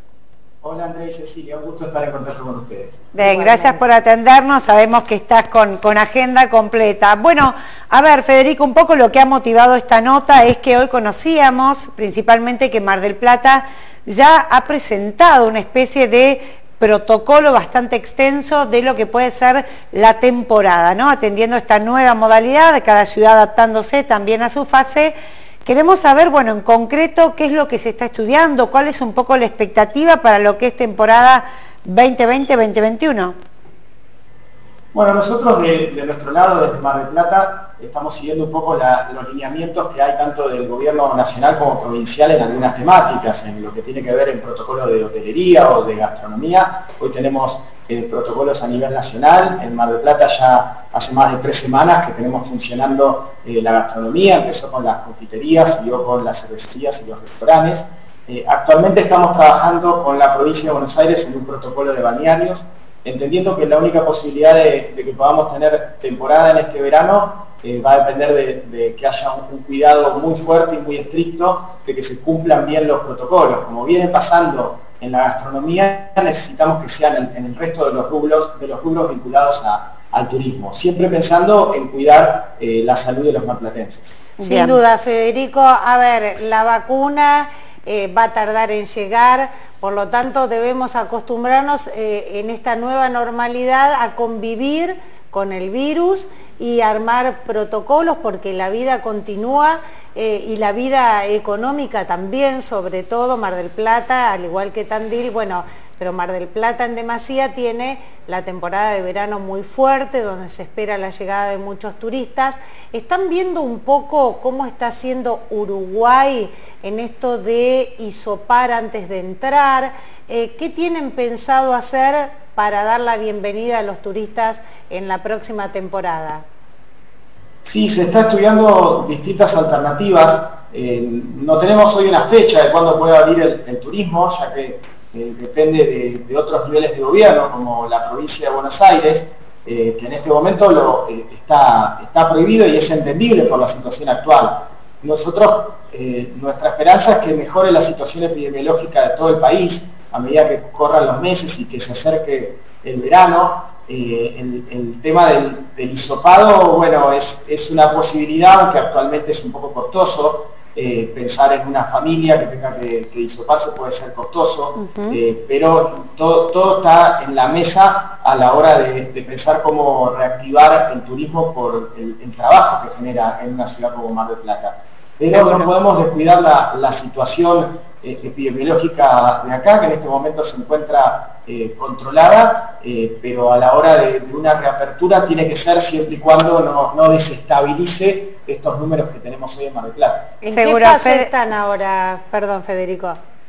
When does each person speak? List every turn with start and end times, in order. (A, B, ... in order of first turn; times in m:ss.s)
0:00.6-0:03.1 A
0:03.1-0:33.4 B
0:03.2-0:03.8 C
0:34.9-1:24.1 A
1:24.4-1:24.8 B
1:24.4-2:06.4 C
2:07.6-3:10.3 A
2:44.8-2:45.2 B
2:55.3-2:55.7 B
3:10.4-3:13.2 C
3:10.5-3:11.3 B